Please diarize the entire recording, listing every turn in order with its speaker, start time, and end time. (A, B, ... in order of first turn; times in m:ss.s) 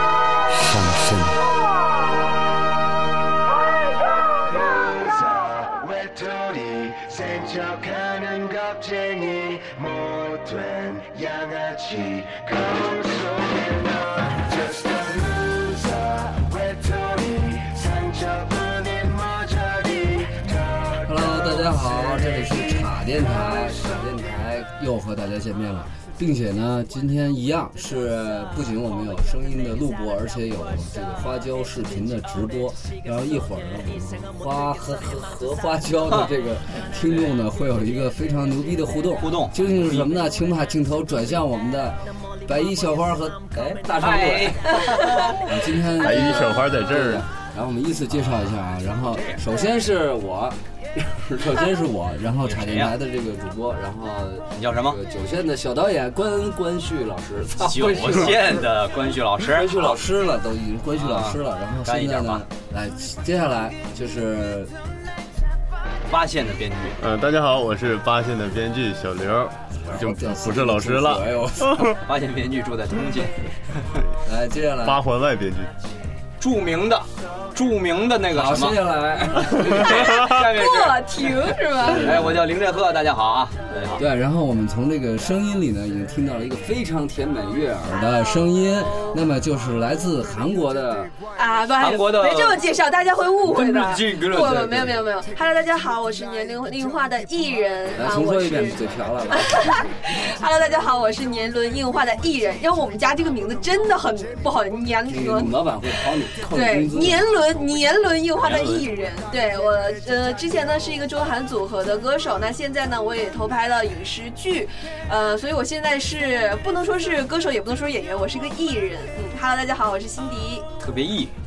0:00.5-0:01.4 A
0:04.5-0:22.9 B
0:21.1-1:04.7 A
0:36.0-0:36.3 C
0:37.1-0:37.4 C
0:39.2-0:40.3 C
0:44.0-0:45.3 C
0:46.0-0:47.2 D
0:48.1-0:49.4 C
0:52.4-0:53.0 C
0:54.6-0:55.0 C
0:57.6-1:00.0 C
1:01.0-1:02.4 C
1:06.1-1:07.0 C
1:07.0-1:12.0 D
1:09.8-1:12.0 A
1:12.0-1:14.0 C
1:14.2-1:15.0 A
1:14.8-1:15.7 D
1:16.4-1:24.0 C
1:18.3-1:20.1 A
1:19.8-1:22.1 E
1:21.8-1:22.5 A
1:24.0-1:31.2 A
1:28.0-1:29.2 E
1:31.4-1:45.6 E
1:31.8-1:32.6 C
1:33.4-1:34.9 C
1:34.4-1:35.0 A
1:37.9-1:39.8 A
1:45.1-1:47.4 A
1:46.4-2:00.7 E
1:48.4-1:48.8 C
2:00.8-2:01.3 C